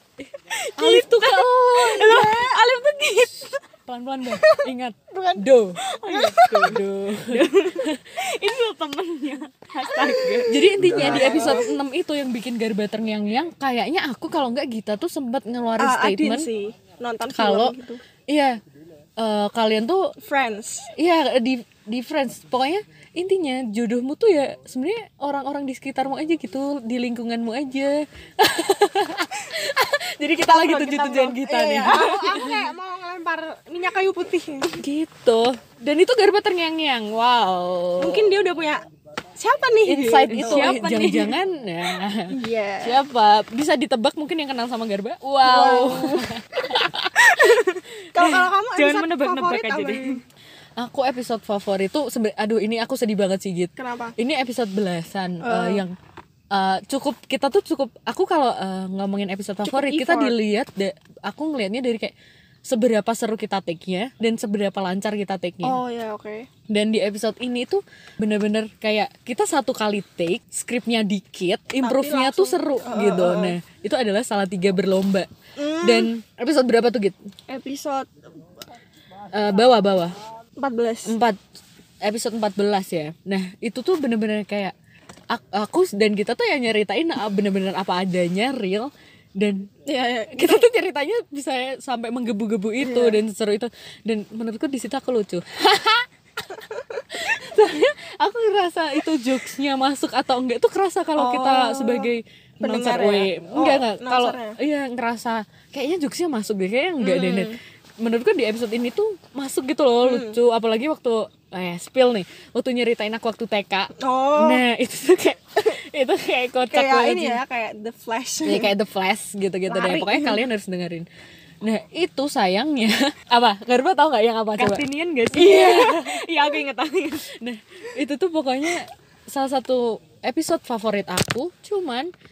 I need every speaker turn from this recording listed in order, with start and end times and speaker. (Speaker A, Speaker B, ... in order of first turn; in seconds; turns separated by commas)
Speaker A: 0.2-2.2, Speaker B: 0.7-3.6, Speaker C: 2.0-2.6, Speaker A: 3.9-5.8, Speaker C: 4.3-5.5, Speaker B: 5.8-11.6, Speaker C: 6.1-6.8, Speaker A: 6.4-8.0, Speaker C: 9.9-11.7, Speaker A: 10.4-16.5, Speaker C: 15.8-18.0, Speaker A: 17.3-17.8, Speaker A: 18.3-18.6, Speaker A: 19.2-20.1, Speaker C: 20.2-20.9, Speaker A: 20.9-32.6, Speaker C: 30.4-34.8, Speaker A: 34.8-38.4, Speaker C: 38.0-38.8, Speaker C: 39.4-40.9, Speaker A: 39.8-47.6, Speaker B: 40.3-41.3, Speaker C: 42.3-43.0, Speaker C: 45.4-46.3, Speaker C: 47.1-50.2, Speaker B: 48.2-50.1, Speaker A: 50.8-55.9, Speaker C: 53.8-54.1, Speaker C: 55.4-55.8, Speaker A: 56.5-62.1, Speaker C: 59.6-60.4, Speaker A: 62.6-65.8, Speaker C: 65.6-66.5, Speaker A: 66.7-77.2, Speaker C: 71.8-73.6, Speaker C: 75.6-76.1, Speaker C: 77.5-78.1, Speaker A: 79.3-80.2, Speaker C: 80.6-81.2, Speaker A: 81.0-81.4, Speaker A: 82.0-84.7, Speaker A: 85.3-96.1, Speaker C: 89.8-90.6, Speaker C: 92.8-93.2, Speaker C: 96.5-97.2, Speaker A: 97.1-117.4, Speaker C: 101.2-104.6, Speaker C: 107.0-107.6, Speaker C: 110.0-110.4, Speaker C: 114.0-114.6, Speaker C: 116.7-118.7, Speaker A: 118.4-121.0, Speaker C: 119.7-120.5, Speaker A: 121.6-126.3, Speaker B: 124.6-127.3, Speaker A: 127.3-132.1